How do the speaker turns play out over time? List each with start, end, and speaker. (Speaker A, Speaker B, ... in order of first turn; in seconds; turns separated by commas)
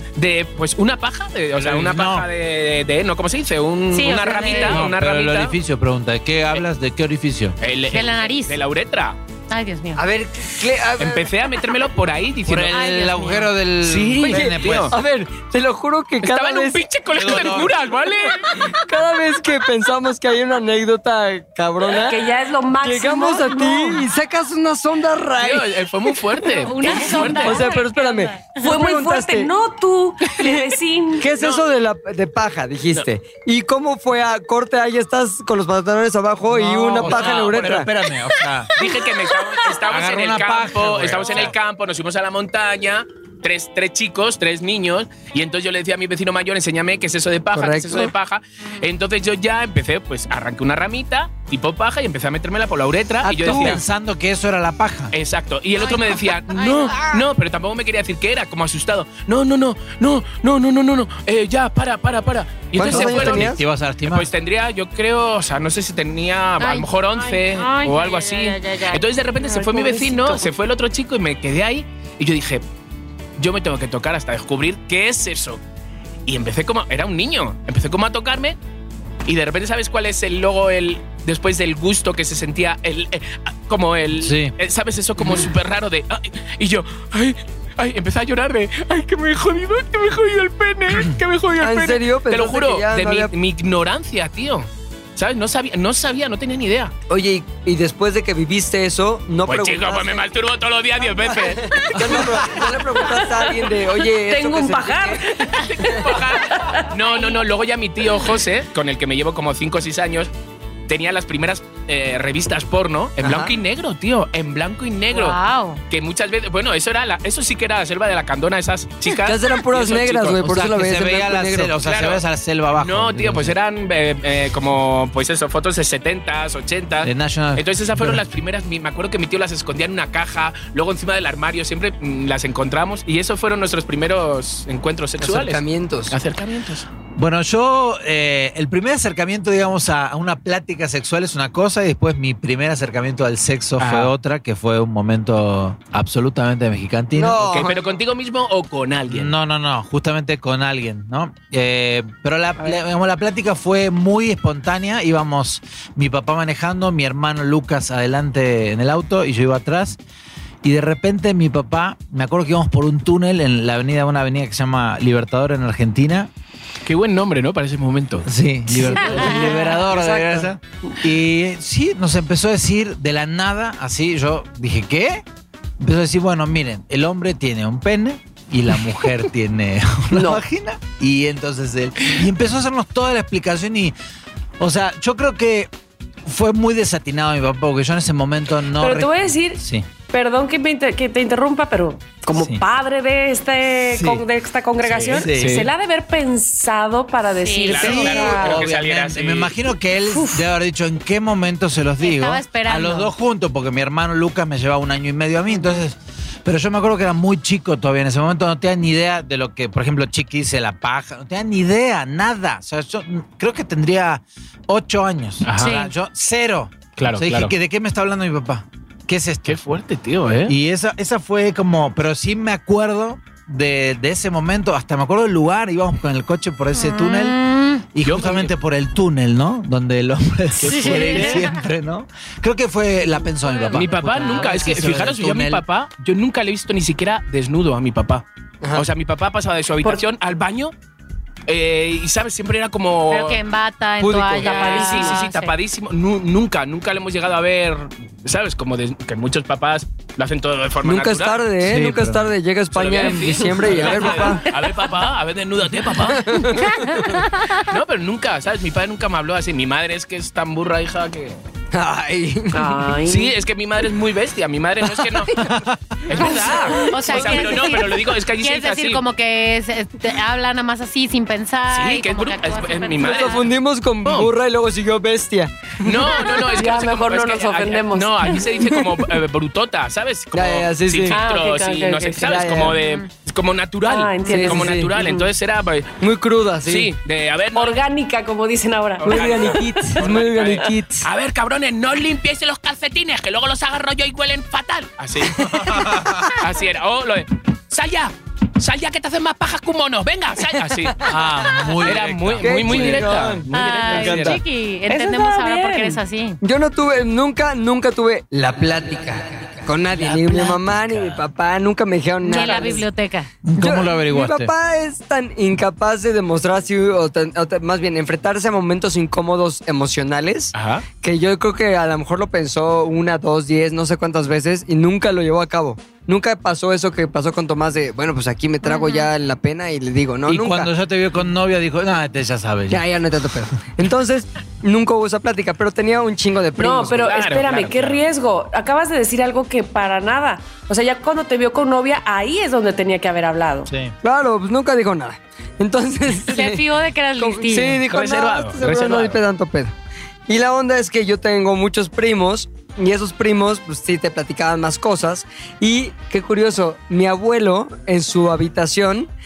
Speaker A: 0.2-5.5, Speaker B: 1.6-2.3, Speaker C: 3.9-4.9, Speaker B: 4.6-7.6, Speaker A: 7.6-9.2, Speaker C: 7.9-8.6, Speaker C: 9.5-10.0, Speaker D: 9.9-11.3, Speaker A: 11.0-12.8, Speaker B: 12.4-14.9, Speaker C: 12.7-13.5, Speaker A: 13.8-14.9, Speaker D: 14.3-16.8, Speaker A: 16.2-18.7, Speaker B: 17.1-17.8, Speaker D: 18.5-22.3, Speaker E: 22.0-24.1, Speaker D: 22.8-25.9, Speaker A: 25.4-27.7, Speaker C: 26.6-28.7, Speaker D: 26.9-29.5, Speaker E: 28.5-31.3, Speaker D: 30.4-30.6, Speaker D: 31.2-37.9, Speaker A: 31.3-31.6, Speaker B: 36.5-38.7, Speaker A: 37.0-37.8, Speaker A: 38.8-53.8, Speaker B: 39.9-41.5, Speaker D: 47.5-48.1, Speaker D: 53.2-53.8, Speaker B: 53.4-55.1, Speaker A: 55.1-72.6, Speaker C: 55.8-57.2, Speaker D: 62.7-63.6, Speaker B: 62.8-64.3, Speaker C: 66.6-69.0, Speaker E: 69.4-70.5, Speaker A: 73.4-75.6, Speaker A: 76.3-78.5, Speaker A: 79.2-96.9, Speaker B: 84.2-84.5, Speaker D: 91.6-93.3, Speaker D: 97.1-100.2, Speaker A: 99.5-102.6, Speaker D: 101.0-105.2, Speaker E: 103.0-106.9, Speaker A: 105.4-110.3, Speaker A: 110.9-115.4, Speaker D: 113.2-113.6, Speaker C: 115.1-115.8, Speaker A: 115.9-120.5, Speaker D: 119.1-121.7, Speaker B: 120.4-123.5, Speaker A: 121.8-122.2, Speaker A: 122.7-136.8, Speaker B: 127.0-128.2, Speaker D: 135.2-136.1, Speaker B: 137.2-147.4, Speaker A: 143.8-144.1, Speaker D: 147.1-147.9, Speaker A: 147.3-149.3, Speaker B: 149.1-160.0, Speaker B: 160.6-166.3, Speaker A: 166.8-168.3, Speaker B: 168.2-175.2, Speaker E: 168.8-170.9, Speaker C: 168.9-169.5, Speaker B: 175.8-183.9, Speaker E: 180.1-180.4, Speaker B: 184.6-185.7, Speaker B: 186.2-189.9, Speaker E: 188.8-198.7, Speaker B: 192.3-192.6, Speaker B: 193.8-194.2, Speaker B: 194.8-195.7, Speaker A: 195.2-195.7, Speaker C: 197.3-197.9, Speaker A: 197.7-199.5, Speaker B: 197.8-219.6, Speaker E: 200.1-200.4, Speaker C: 202.0-203.1, Speaker A: 215.4-215.8, Speaker C: 215.6-215.9, Speaker A: 217.0-217.5, Speaker A: 219.4-220.5, Speaker B: 220.4-227.4, Speaker C: 226.7-227.8, Speaker B: 227.9-235.6, Speaker A: 228.0-228.5, Speaker A: 230.6-231.5, Speaker C: 230.7-231.6, Speaker C: 233.4-234.4, Speaker A: 233.7-240.7, Speaker D: 238.6-238.9, Speaker A: 241.5-243.4, Speaker C: 243.1-245.5, Speaker D: 244.0-244.5, Speaker A: 244.4-251.4, Speaker E: 244.4-245.2, Speaker D: 250.8-254.4, Speaker B: 251.6-252.3, Speaker A: 252.7-256.3, Speaker B: 253.6-254.2, Speaker D: 256.0-257.1, Speaker C: 256.6-257.6, Speaker A: 257.6-261.4, Speaker D: 261.7-262.9, Speaker E: 262.5-263.4, Speaker A: 263.1-265.4, Speaker B: 265.4-265.8, Speaker A: 266.0-269.0, Speaker E: 266.2-267.6, Speaker C: 266.7-273.4, Speaker A: 271.7-273.5, Speaker D: 273.0-275.9, Speaker A: 274.0-274.3, Speaker A: 275.8-285.9, Speaker E: 276.4-278.4, Speaker D: 278.6-279.0, Speaker D: 280.3-281.2, Speaker E: 281.1-282.4, Speaker D: 282.2-282.8, Speaker C: 282.8-283.1, Speaker E: 283.8-285.3, Speaker D: 284.3-284.9, Speaker D: 286.0-286.9, Speaker A: 286.6-287.8, Speaker E: 287.5-290.0, Speaker A: 289.0-295.8, Speaker D: 289.0-291.1, Speaker D: 295.3-296.3, Speaker B: 295.4-296.3, Speaker A: 296.4-301.0, Speaker D: 300.6-300.9, Speaker B: 301.1-303.2, Speaker A: 301.8-304.4, Speaker D: 302.4-304.4, Speaker C: 303.5-306.4, Speaker E: 304.9-306.0, Speaker D: 306.4-312.9, Speaker B: 309.9-311.2, Speaker C: 312.2-313.3, Speaker E: 312.3-312.7, Speaker B: 313.4-314.5, Speaker D: 313.6-330.7, Speaker A: 320.5-320.9, Speaker C: 328.6-329.1, Speaker B: 330.2-332.8, Speaker D: 332.7-337.4, Speaker E: 336.6-343.7, Speaker A: 337.0-338.0, Speaker B: 343.6-343.9, Speaker D: 344.0-346.6, Speaker C: 346.2-347.8, Speaker D: 347.2-349.7, Speaker A: 347.9-349.2, Speaker D: 350.3-359.1